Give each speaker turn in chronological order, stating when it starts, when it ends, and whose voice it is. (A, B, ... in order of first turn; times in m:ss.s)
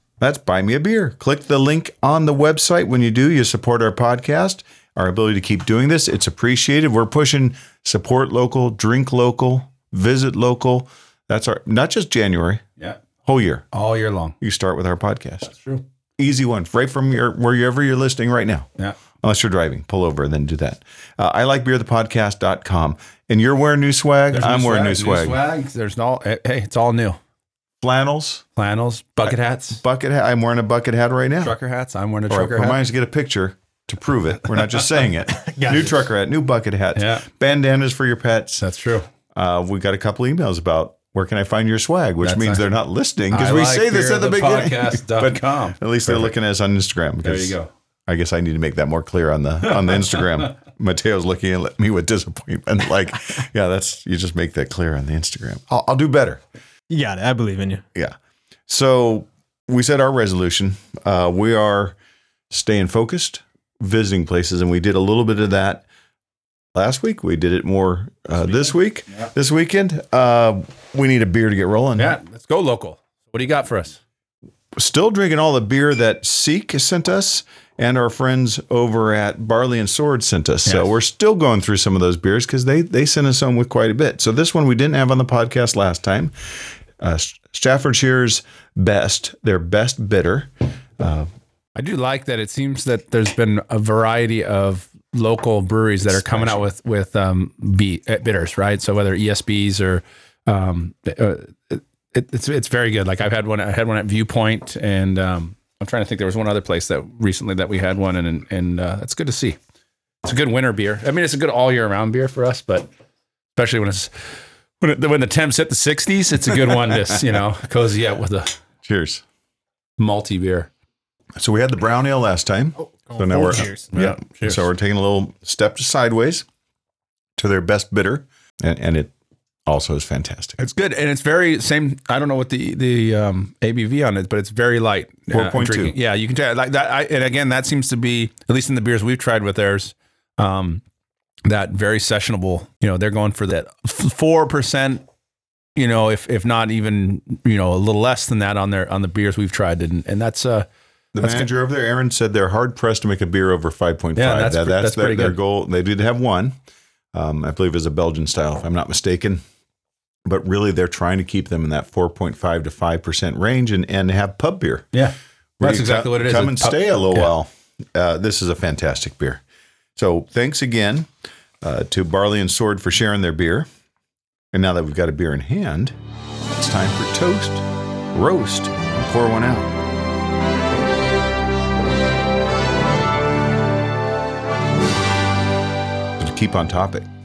0:00.2-0:12.6 A
0:13.2-0:13.6 A
0:13.7-0:14.4 B
0:14.4-0:15.5 A
0:15.4-0:15.8 B
0:16.2-0:18.7 A
0:19.2-0:25.4 A
0:24.3-0:27.2 B
0:27.8-0:28.4 A
0:28.6-0:29.8 B
0:29.3-0:31.6 A
0:31.4-0:32.8 B
0:32.3-0:38.6 A
0:35.5-0:36.0 C
0:37.0-0:37.2 B
0:38.6-0:39.1 B
0:39.3-0:47.6 A
0:42.2-0:42.6 B
0:43.3-0:46.3 B
0:47.2-0:47.7 B
0:48.1-0:56.4 A
0:49.7-0:50.4 B
0:56.9-0:57.8 C
0:58.7-1:02.0 A
1:02.5-1:05.8 A
1:06.8-1:12.2 A
1:12.0-1:14.0 B
1:14.8-1:31.3 A
1:20.7-1:20.9 B
1:31.8-1:49.6 B
1:36.1-1:36.6 A
1:50.2-1:52.9 B
1:53.6-1:54.1 B
1:54.8-1:58.6 B
1:58.8-1:59.2 A
2:00.0-2:00.7 B
2:01.4-2:06.5 A
2:02.8-2:03.9 C
2:03.9-2:04.6 B
2:07.4-2:09.1 A
2:09.7-2:10.6 A
2:10.6-2:20.8 B
2:15.3-2:16.0 A
2:21.5-2:25.0 B
2:25.8-2:30.7 B
2:31.1-2:36.6 A
2:31.2-2:31.5 B
2:34.2-2:35.4 B
2:37.1-2:39.4 A
2:40.3-2:44.9 A
2:44.9-2:47.3 B
2:45.6-2:49.4 A
2:50.0-2:51.1 A
2:51.6-2:53.7 A
2:54.5-2:56.0 A
2:56.5-2:59.7 A
3:06.2-3:07.1 A